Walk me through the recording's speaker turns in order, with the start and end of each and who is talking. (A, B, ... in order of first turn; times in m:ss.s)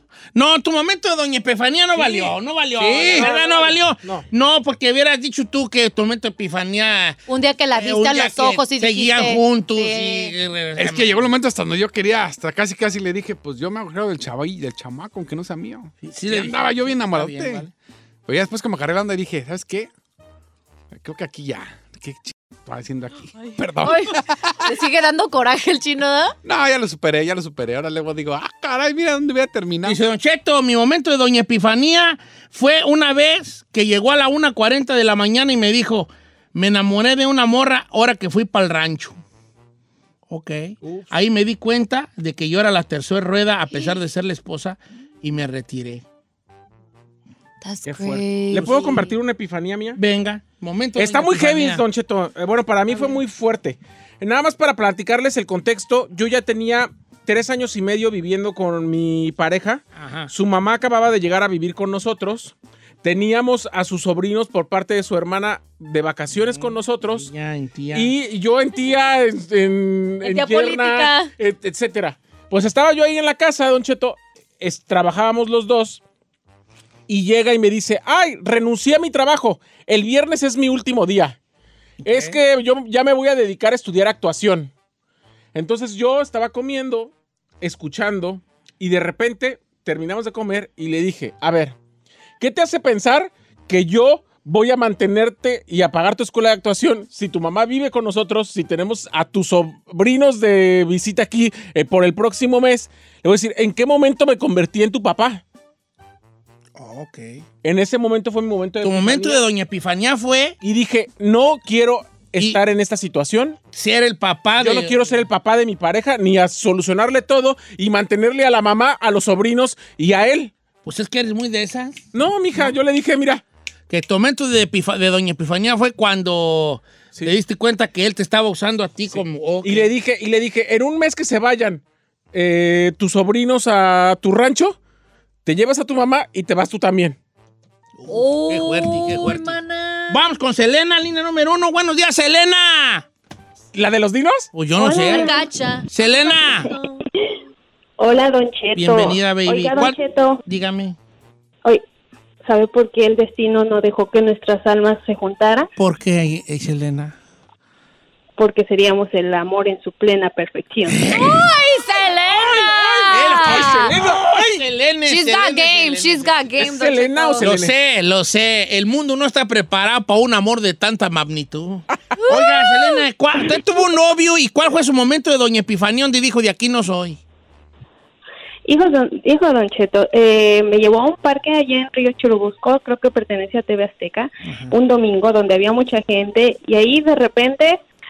0:00.4-0:07.2 A
0:02.0-0:02.3 B
0:02.8-0:03.3 C
0:02.9-0:04.2 B
0:07.3-0:10.3 D
0:07.7-0:11.3 A
0:10.8-0:17.7 C
0:16.0-0:17.7 A
0:18.3-0:19.9 C
0:20.9-0:24.7 C
0:23.4-0:26.4 D
0:26.4-0:30.0 C
0:29.8-0:39.2 A
0:40.3-0:46.0 A
0:40.8-0:41.1 B
0:47.6-0:49.0 D
0:47.9-0:50.0 B
0:48.6-0:49.1 A
0:50.0-0:51.8 A
0:51.0-1:07.3 B
1:00.0-1:00.3 A
1:06.5-1:08.1 A
1:07.9-1:16.0 B
1:10.2-1:11.3 D
1:17.1-1:21.4 B
1:22.0-1:22.4 A
1:22.0-1:24.7 B
1:25.5-1:31.8 B
1:32.4-1:45.4 B
1:46.8-1:47.4 A
1:47.6-1:49.4 B
1:48.8-1:50.6 A
1:50.6-1:53.6 B
1:53.7-1:55.0 A
1:54.6-2:00.5 B
2:00.8-2:02.1 A
2:02.1-2:03.4 B
2:03.9-2:09.9 A
2:09.1-2:14.8 B
2:15.4-2:17.2 B
2:18.0-2:23.1 A
2:18.1-2:20.3 D
2:23.7-2:24.5 B
2:24.5-2:25.3 A
2:24.8-2:25.5 E
2:25.0-2:26.9 D
2:25.9-2:26.7 A
2:28.0-2:30.4 E
2:28.8-2:31.0 A
2:32.4-2:35.7 E
2:35.8-2:37.2 A
2:38.4-2:41.1 E
2:40.9-2:41.5 A
2:41.1-2:43.9 D
2:42.5-2:44.6 B
2:42.7-2:46.3 A
2:45.1-2:47.5 D
2:46.6-2:47.7 B
2:47.4-2:57.2 A
2:52.2-2:52.9 D
2:58.6-3:07.8 E
3:04.5-3:04.7 A